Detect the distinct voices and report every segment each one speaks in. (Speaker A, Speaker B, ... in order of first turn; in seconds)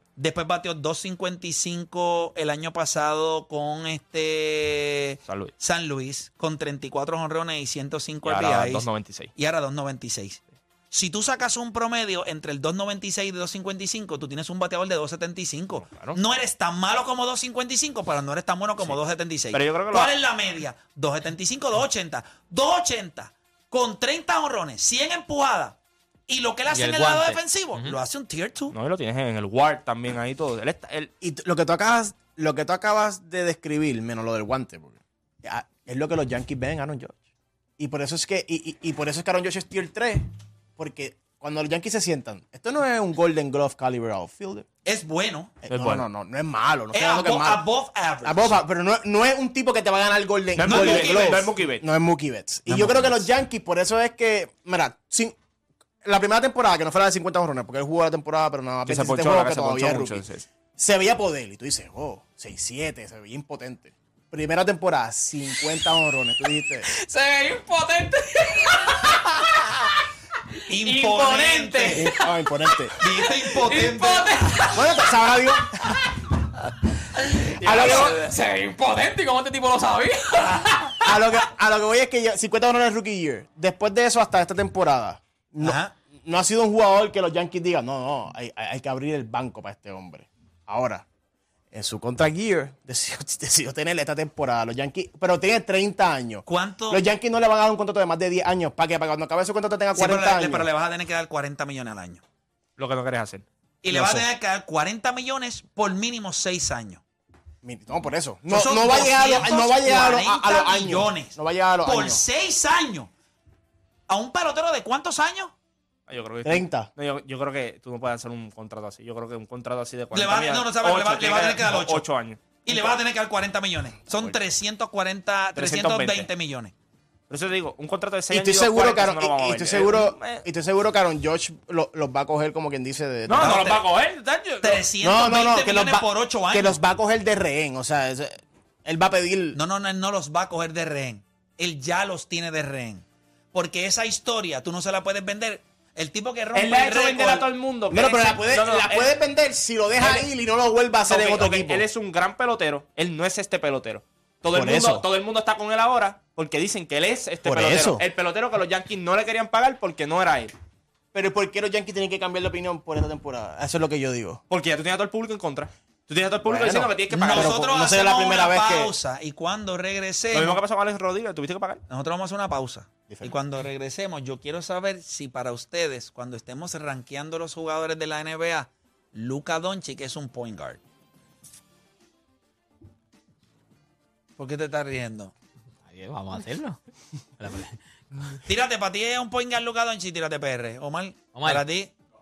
Speaker A: 0.2-25.8, 26.3-28.8, 44.9-45.6, 46.9-48.6, 50.6-51.5, 70.7-72.1, 73.0-74.7, 77.7-78.1, 85.6-85.9, 96.5-97.0, 99.9-102.2, 103.8-107.0, 108.5-113.1, 114.1-115.5, 120.1-122.0, 122.7-126.7, 133.4-133.8, 134.6-136.8, 139.5-148.4, 167.1-170.6, 171.9-180.8, 184.4-185.3, 188.5-191.9
Speaker B: 5.3-5.5, 8.2-9.3, 15.8-16.2, 19.5-20.1, 28.7-31.1, 45.7-46.0, 50.6-51.9, 52.7-53.2, 58.9-60.5, 102.8-104.3, 116.1-123.0, 125.6-126.3, 127.3-130.4, 133.3-134.9, 146.5-149.1, 150.0-150.3, 151.1-160.5, 164.5-167.6, 170.3-171.8
Speaker C: 26.7-28.0, 66.9-69.9, 70.8-76.1, 77.2-81.1, 185.9-186.8, 187.4-187.8, 191.3-191.7
Speaker D: 31.2-37.2, 37.8-40.3, 40.8-44.7, 45.6-47.6, 48.2-55.4, 56.0-60.2, 60.8-66.9, 71.9-72.9, 74.7-76.0, 77.6-78.2, 81.0-91.0, 91.7-100.7, 107.6-112.2, 116.4-116.9, 128.3-133.8, 135.0-139.6, 147.9-151.9, 154.5-155.1, 157.4-158.1, 161.1-164.4, 166.4-168.9